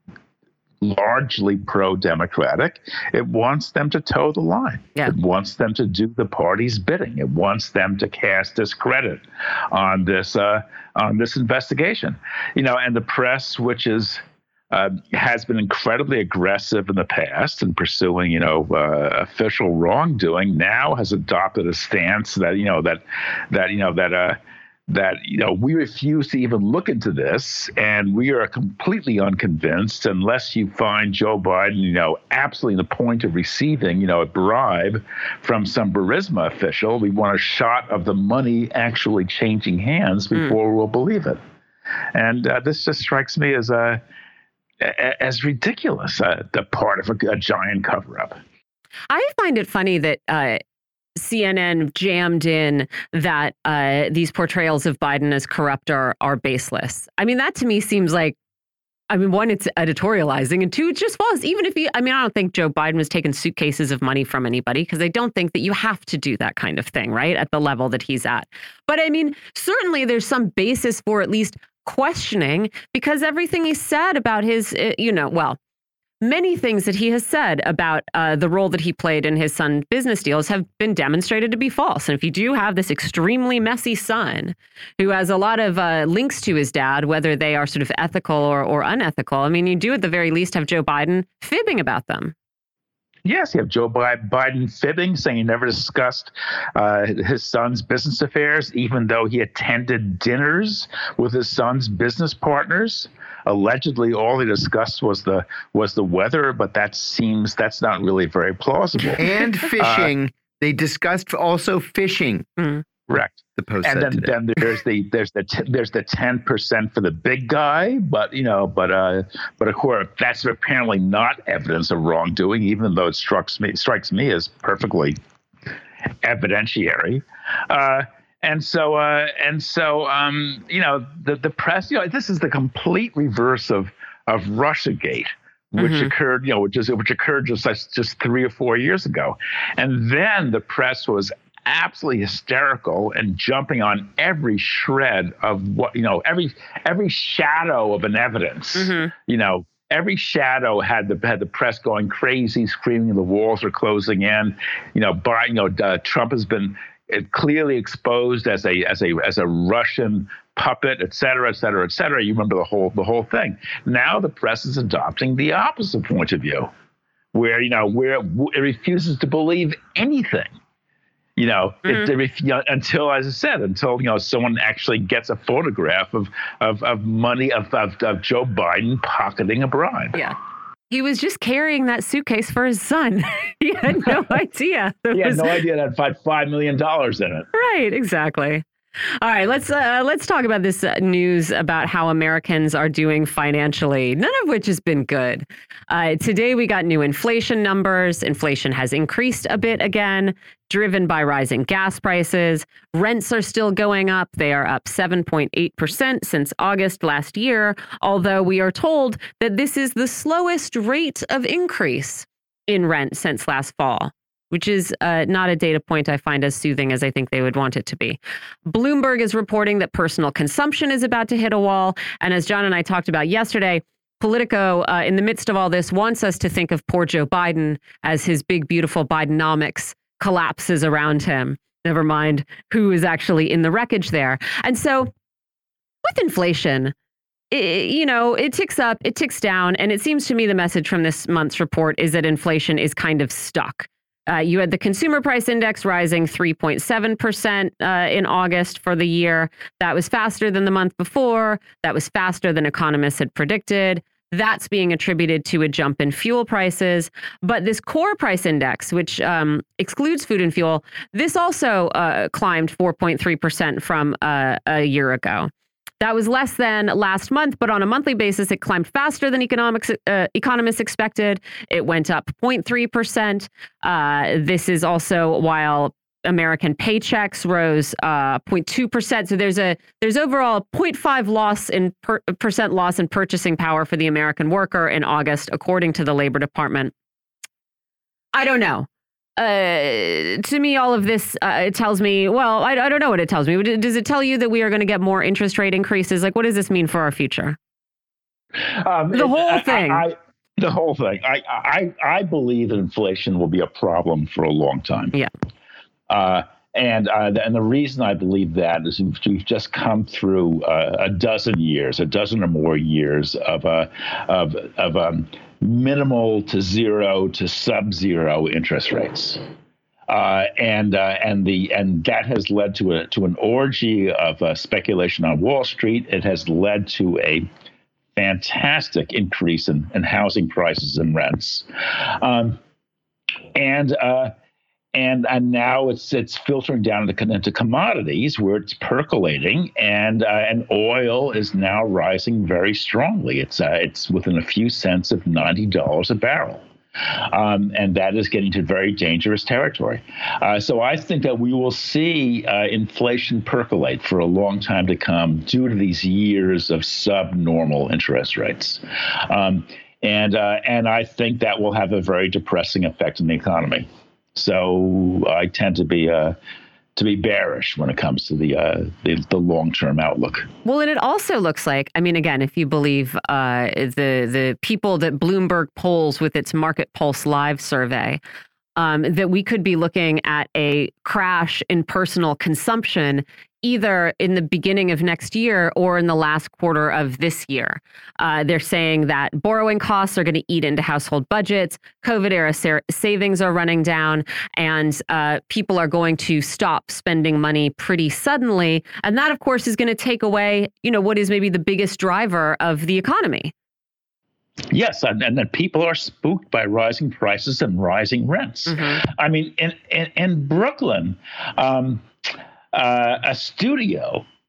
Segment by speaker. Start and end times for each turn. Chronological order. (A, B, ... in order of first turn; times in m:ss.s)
0:00.8-0:24.4 A
0:24.9-0:41.4 A
0:42.1-0:44.0 A
0:44.8-0:48.4 A
0:49.1-0:50.6 B
0:51.2-0:58.4 B
0:59.1-1:15.6 B
1:16.2-1:32.3 B
1:33.2-1:49.2 A
1:49.2-1:52.5 C
1:49.8-1:50.1 A
1:53.1-2:05.2 A
1:53.6-1:54.3 C
2:06.2-2:46.7 A
2:15.8-2:16.1 B
2:28.8-2:29.1 B
2:47.3-2:50.5 A
2:51.4-3:00.2 A
3:00.9-3:05.6 B
3:05.1-3:07.5 A
3:07.5-3:08.6 B
3:09.2-3:55.1 B
3:56.0-3:56.9 B
3:57.5-4:46.9 B
4:48.3-4:57.6 B
4:58.8-5:05.2 A
4:59.1-5:00.0 B
5:06.1-5:19.4 A
5:20.1-5:27.5 A
5:28.2-5:31.7 A
5:32.2-5:32.6 A
5:33.5-5:34.3 A
5:34.9-5:46.6 A
5:47.3-6:06.3 A
6:07.0-6:10.5 A
6:10.6-6:18.2 B
6:18.8-6:43.5 B
6:44.7-6:52.1 A
6:48.7-6:49.0 B
6:52.7-6:54.2 A